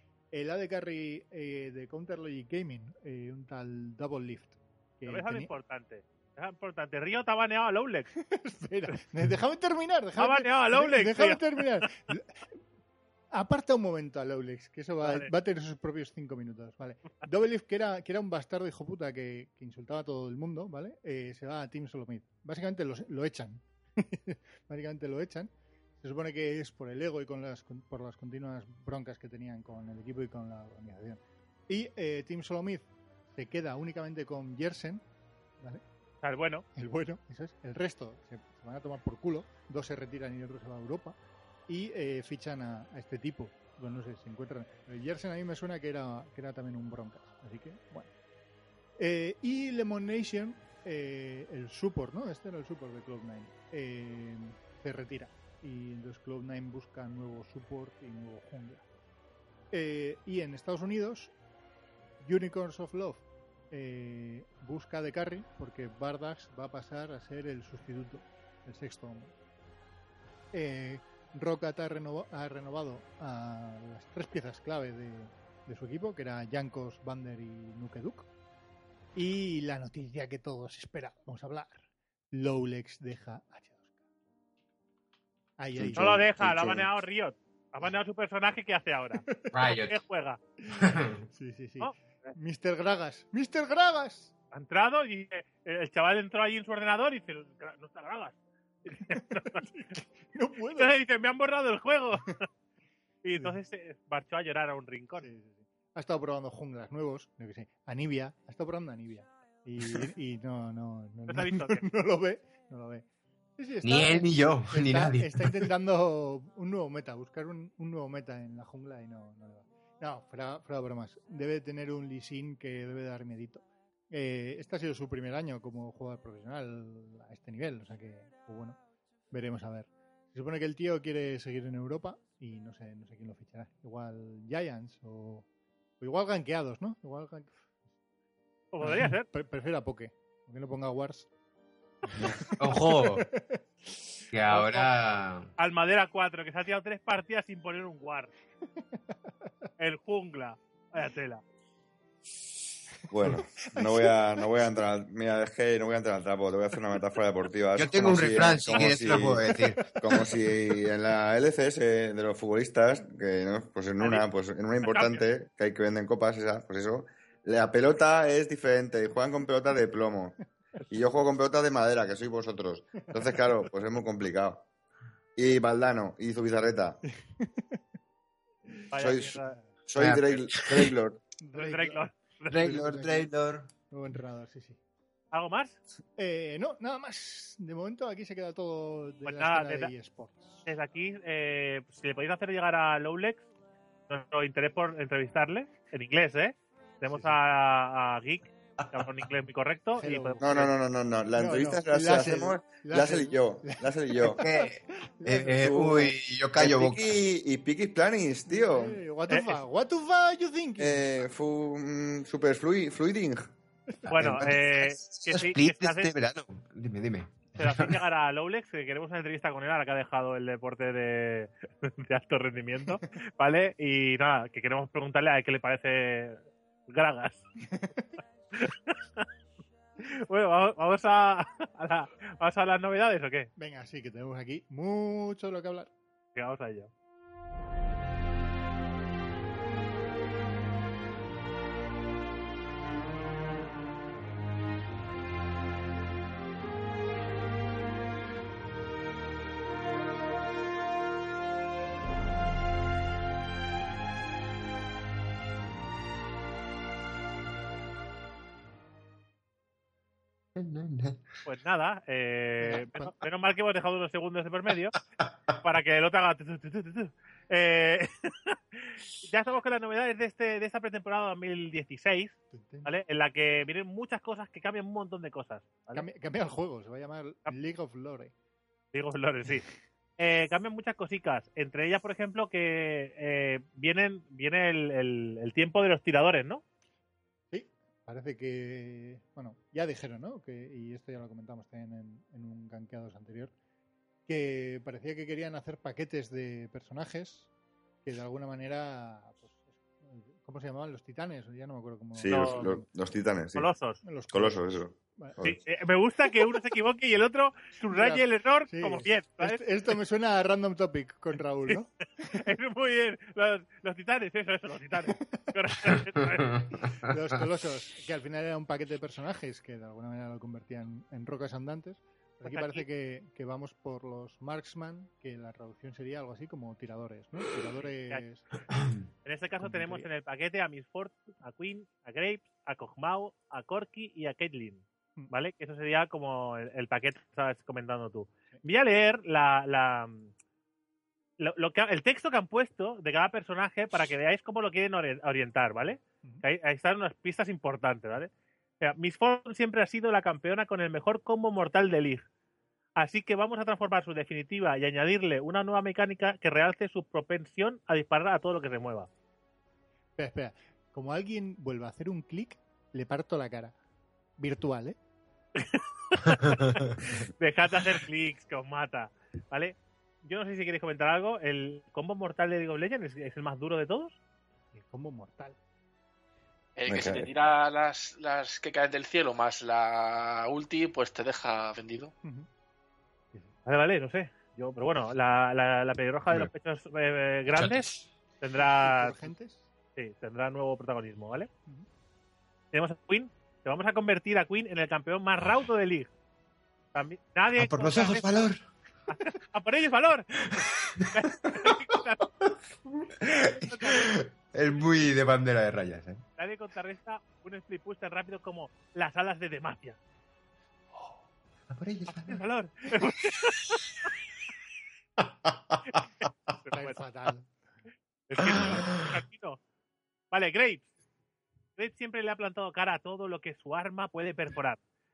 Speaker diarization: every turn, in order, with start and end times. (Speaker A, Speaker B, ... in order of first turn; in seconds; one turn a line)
Speaker A: 0.3-5.5
Speaker B: 5.0-8.1
Speaker A: 8.3-12.4
Speaker B: 10.2-11.6
Speaker A: 13.3-35.0
Speaker B: 15.0-15.3
Speaker B: 36.2-36.6
Speaker A: 36.8-48.1
Speaker A: 49.0-58.8
Speaker A: 59.7-61.3
Speaker A: 62.2-69.3
Speaker A: 70.5-78.3
Speaker A: 79.1-83.9
Speaker A: 85.6-86.2
Speaker C: 85.8-86.9
Speaker B: 85.9-90.4
Speaker C: 89.5-90.0
Speaker C: 90.8-91.2
Speaker A: 91.3-94.3
Speaker B: 91.8-92.3
Speaker B: 94.5-99.7
Speaker A: 99.1-100.9
Speaker B: 100.8-102.4
Speaker B: 103.2-105.2
Speaker A: 105.2-113.0
Speaker B: 111.3-111.8
Speaker A: 113.6-128.8
Speaker C: 113.8-115.7
Speaker A: 129.3-135.4
Speaker A: 136.0-137.7
Speaker B: 138.7-139.3
Speaker A: 138.8-141.3
Speaker A: 142.0-143.6
Speaker C: 142.1-143.2
Speaker C: 144.3-145.5
Speaker B: 144.5-144.9
Speaker B: 145.6-148.3
Speaker B: 149.8-151.4
Speaker D: 153.1-170.4
Speaker C: 157.8-159.8
Speaker A: 159.1-160.3
Speaker B: 164.0-164.2
Speaker B: 164.8-165.2
Speaker D: 170.9-174.7
Speaker D: 175.3-177.0
Speaker A: 177.2-177.8
Speaker B: 178.9-179.6
Speaker D: 179.0-181.2
Speaker C: 180.0-180.9
Speaker A: 181.4-183.3
Speaker B: 181.5-182.7
Speaker C: 182.5-183.7
Speaker A: 183.9-184.8
Speaker B: 185.3-185.8
Speaker A: 186.2-190.7
Speaker B: 189.2-189.9
Speaker B: 190.7-193.4
Speaker B: 194.1-200.7
Speaker A: 197.1-197.4
Speaker C: 198.8-199.1
Speaker A: 200.0-200.6
Speaker D: 200.4-204.4
Speaker A: 201.3-205.6
Speaker C: 204.4-207.2
Speaker D: 205.5-209.0
Speaker A: 208.5-211.1
Speaker B: 209.3-209.6
Speaker D: 210.8-213.5
Speaker C: 214.1-217.9
Speaker B: 214.1-216.1
Speaker B: 217.6-227.4
Speaker A: 227.7-228.1
Speaker B: 228.5-229.3
Speaker B: 230.0-233.5
Speaker A: 233.6-235.9
Speaker B: 236.3-236.9
Speaker C: 260.5-261.2
Speaker B: 261.4-264.9
Speaker A: 262.6-263.1
Speaker B: 265.6-276.1
Speaker A: 272.5-272.9
Speaker A: 275.9-278.3
Speaker B: 278.9-279.6
Speaker B: 280.2-286.6
Speaker A: 287.5-293.5
Speaker A: 294.3-297.5
Speaker A: 298.0-302.9
Speaker D: 302.1-303.7
Speaker B: 302.3-302.7
Speaker B: 303.6-304.0
Speaker A: 304.0-305.4
Speaker D: 304.3-305.6
Speaker B: 305.4-309.6
Speaker A: 307.8-312.4
Speaker B: 312.3-316.5
Speaker A: 315.2-315.4
Speaker C: 316.4-317.4
Speaker A: 317.0-328.5
Speaker B: 322.4-322.9
Speaker B: 329.2-340.3
Speaker A: 329.7-330.1
Speaker B: 341.4-352.2
Speaker B: 353.0-359.1
Speaker A: 360.1-363.7
Speaker A: 364.4-365.0
Speaker B: 365.6-374.2
Speaker A: 374.7-375.6
Speaker E: 376.8-382.1
Speaker D: 376.9-377.3
Speaker A: 382.2-382.5
Speaker B: 383.6-389.3
Speaker C: 387.5-388.1
Speaker A: 388.6-389.7
Speaker B: 389.9-391.5
Speaker B: 392.7-396.1
Speaker B: 396.9-398.4
Speaker C: 397.6-398.6
Speaker B: 399.1-402.3
Speaker C: 400.6-401.7
Speaker C: 402.4-406.2
Speaker B: 403.6-404.1
Speaker B: 406.4-410.0
Speaker C: 411.7-412.4
Speaker B: 412.1-413.8
Speaker C: 415.2-415.8
Speaker B: 415.9-417.0
Speaker A: 416.7-417.5
Speaker B: 418.3-419.6
Speaker C: 418.6-418.9
Speaker B: 420.3-420.9
Speaker B: 421.8-424.8